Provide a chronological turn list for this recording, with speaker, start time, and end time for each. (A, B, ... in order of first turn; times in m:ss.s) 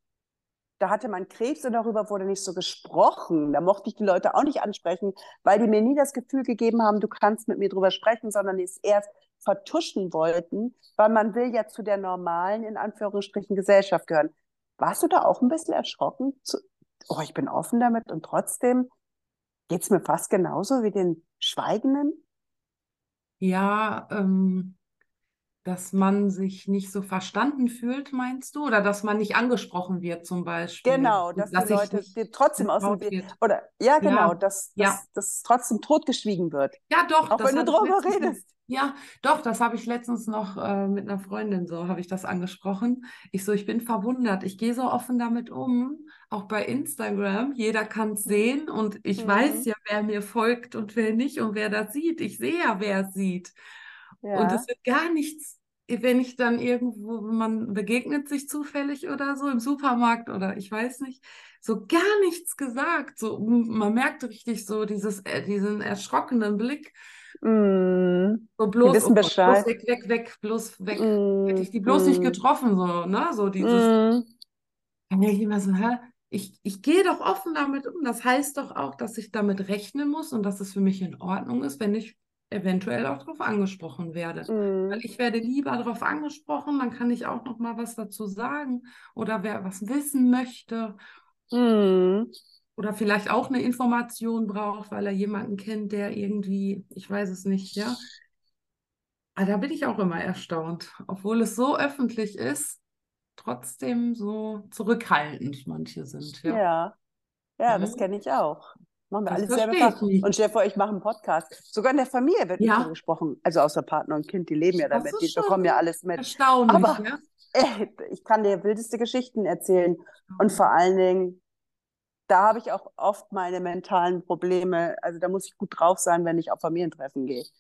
0:00.8-0:18.9 A
0:19.7-0:22.2 A
0:23.4-0:24.8 B
0:25.6-0:33.3 B
0:30.8-0:36.8 A
0:34.0-0:35.0 B
0:36.9-0:53.5 B
0:37.3-0:38.5 A
0:49.2-0:49.7 A
0:54.2-0:54.7 A
0:54.3-1:06.9 B
1:07.4-1:09.7 A
1:08.6-1:13.9 B
1:10.9-1:12.4 A
1:13.6-1:14.3 A
1:15.1-1:31.0 B
1:24.5-1:25.0 A
1:31.5-1:32.3 A
1:32.8-1:38.0 B
1:39.4-1:42.8 B
1:43.4-1:46.6 B
1:46.5-1:46.9 A
1:47.6-1:57.0 A
1:47.7-1:48.0 B
1:49.3-1:50.3 B
1:52.6-1:52.9 B
1:54.9-1:57.2 B
1:57.5-2:01.4 A
2:00.3-2:00.6 B
2:02.3-2:07.5 A